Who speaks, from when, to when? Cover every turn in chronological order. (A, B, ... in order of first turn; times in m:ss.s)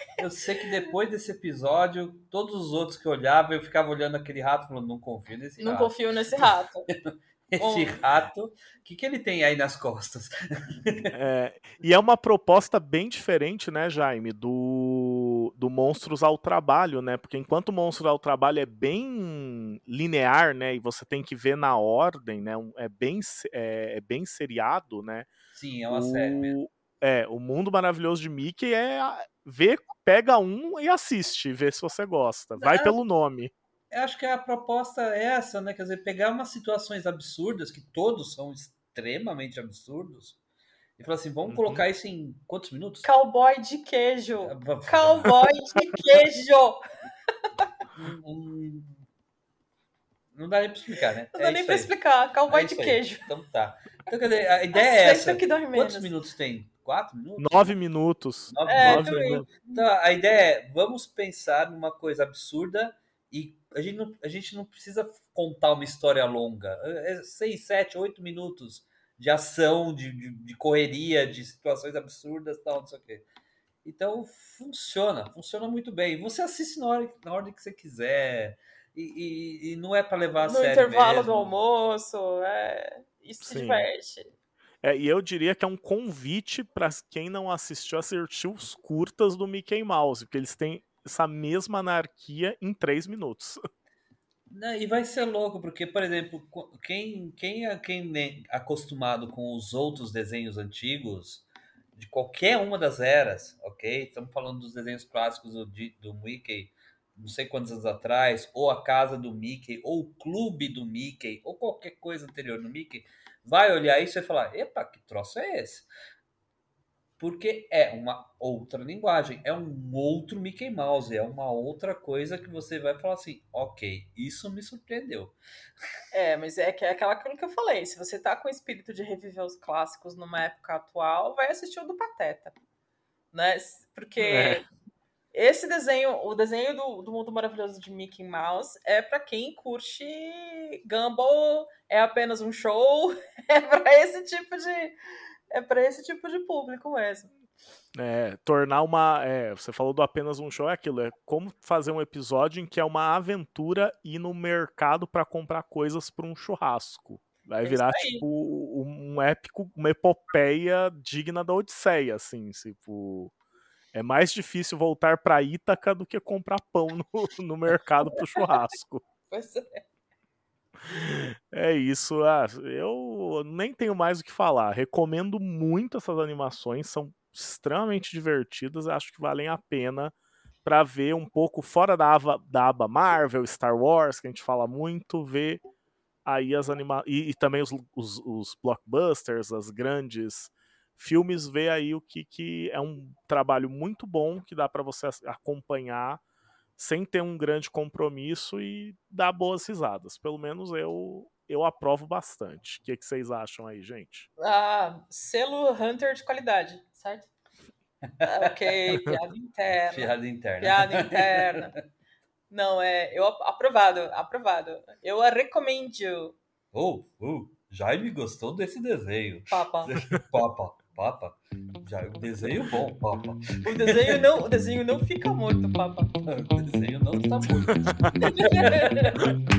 0:00.2-0:11.1 A
0:05.6-0:06.8 B
0:07.6-0:07.9 B
0:11.1-0:25.3 C
0:25.5-0:26.6 A
0:25.9-0:33.5 C
0:32.6-0:32.9 B
0:33.9-0:40.4 A
0:41.0-0:43.1 A
0:41.5-0:41.8 C
0:43.0-0:46.8 B
0:44.4-0:45.4 A
0:48.0-0:49.0 A
0:50.3-0:51.9 A
0:51.3-0:53.2 B
0:52.5-0:57.8 A
0:54.7-0:56.1 B
0:57.4-0:59.5 C
0:58.5-1:13.2 A
0:58.7-0:59.8 B
1:13.8-1:21.5 A
1:20.4-1:24.3 B
1:23.4-1:23.9 C
1:24.8-1:33.6 C
1:34.5-1:55.9 A
1:57.2-2:05.3 A
2:06.1-2:12.5 B
2:13.3-2:14.6 B
2:14.2-2:14.6 C
2:15.3-2:25.0 B
2:25.5-2:27.3 B
2:27.9-2:43.3 C
2:37.6-2:38.2 B
2:43.9-2:49.0 C
2:49.3-2:49.8 B
2:50.9-3:00.1 C
3:00.6-3:05.6 C
3:06.2-3:16.2 C
3:16.8-3:24.3 C
3:24.4-3:27.3 B
3:28.2-3:28.7 A
3:28.2-3:31.7 B
3:29.9-3:31.7 A
3:32.5-3:36.3 B
3:36.7-3:44.2 A
3:39.5-3:39.9 B
3:43.6-3:46.1 B
3:46.2-3:49.3 A
3:48.2-3:49.3 B